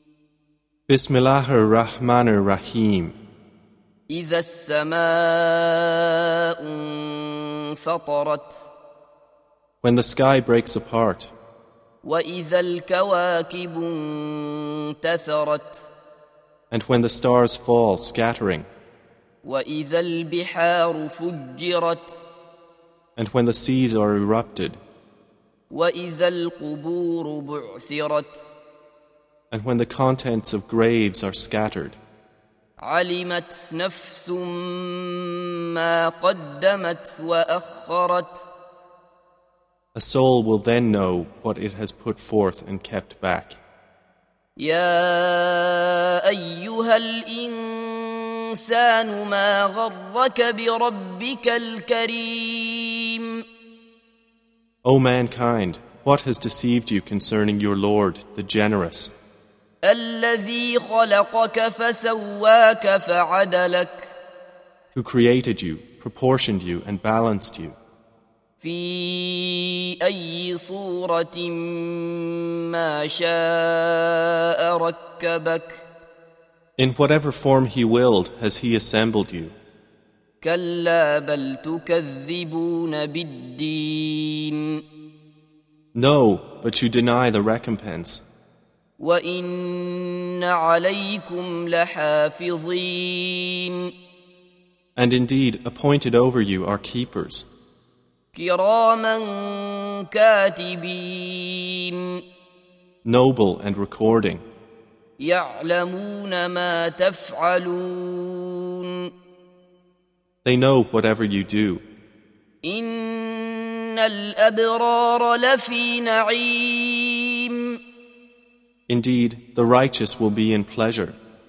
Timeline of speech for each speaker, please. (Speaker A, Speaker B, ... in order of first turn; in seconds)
Speaker A: 0.9-3.1, 9.8-11.3, 16.7-18.7, 23.1-24.8, 29.5-32.0, 39.9-43.6, 54.8-59.1, 64.9-67.8, 76.8-79.5, 85.9-88.2, 95.0-97.5, 103.0-104.4, 110.4-111.8, 118.9-121.2
Speaker B: 4.1-8.6, 12.0-15.9, 19.4-22.2, 25.7-28.5, 32.8-38.4, 44.6-53.4, 59.8-64.1, 68.6-75.8, 80.4-84.8, 89.0-93.9, 98.3-102.2, 105.2-109.1, 112.6-117.8